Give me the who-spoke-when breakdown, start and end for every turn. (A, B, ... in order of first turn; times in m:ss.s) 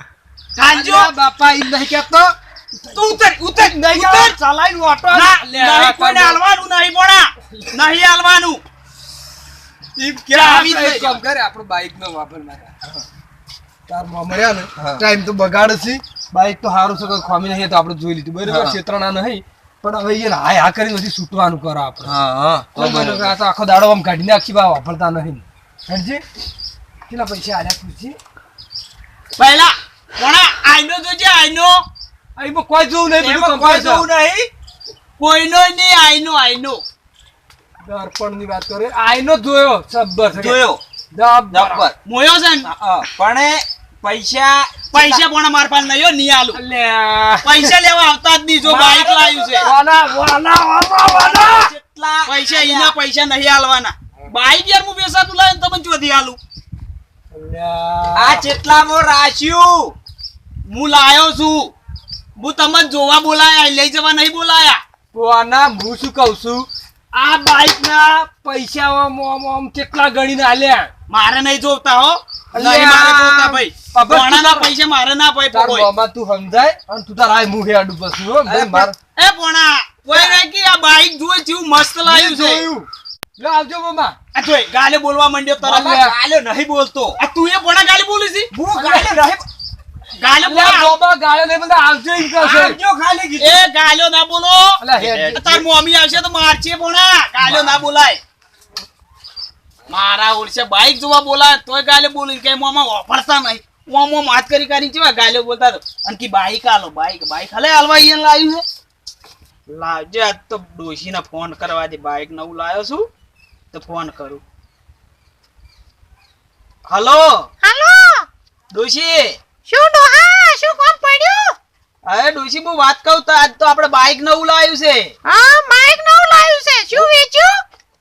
0:00.6-0:01.1 A
0:00.7-0:06.4 B
0:02.9-0:04.4 A
0:05.1-0:08.6 A
0:10.0-0:12.8 B
0:10.3-0:11.2 A
0:13.9-0:22.2 B
0:14.8-0:15.0 C
0:18.5-0:18.8 C
0:22.0-0:23.4 C
0:22.8-0:26.2 B
0:27.1-0:28.2 B
0:29.4-0:31.8 A
0:32.4-0:34.1 B
0:33.1-0:34.5 C
0:35.2-0:36.8 A
0:37.8-0:40.6 B
0:40.3-0:40.8 C
0:41.1-0:41.9 B
0:41.5-0:42.0 C
0:42.0-0:42.7 A
0:42.6-0:45.2 C
0:44.9-0:46.6 A
0:46.5-0:47.7 B
0:47.4-0:49.7 A
0:48.6-0:49.7 C
0:49.6-0:51.7 B
0:51.1-0:53.0 C
0:52.3-0:56.4 A
0:57.3-0:58.5 B
0:58.2-1:00.0 C
1:00.7-1:01.7 A
1:02.4-1:04.8 A
1:05.1-1:06.7 B
1:07.3-1:10.9 B
1:11.1-1:15.9 A
1:12.5-1:14.7 B
1:15.5-1:19.0 B
1:18.4-1:18.9 C
1:19.2-1:22.7 A
1:20.1-1:20.4 B
1:22.0-1:24.2 B
1:24.4-1:26.0 A
1:25.6-1:26.2 B
1:25.7-1:27.2 C
1:27.2-1:28.5 A
1:28.5-1:29.4 C
1:28.7-1:29.2 B
1:30.2-1:31.0 A
1:30.4-1:32.8 B
1:32.3-1:33.7 C
1:33.4-1:34.8 A
1:34.8-1:35.5 B
1:35.0-1:35.6 C
1:35.3-1:38.2 A
1:39.9-1:48.6 A
1:49.7-1:53.1 A
1:53.7-1:54.4 A
1:56.9-1:57.5 A
1:57.6-1:58.3 D
1:58.7-1:59.4 A
1:59.7-2:01.6 D
2:02.1-2:05.1 A
2:05.2-2:07.6 D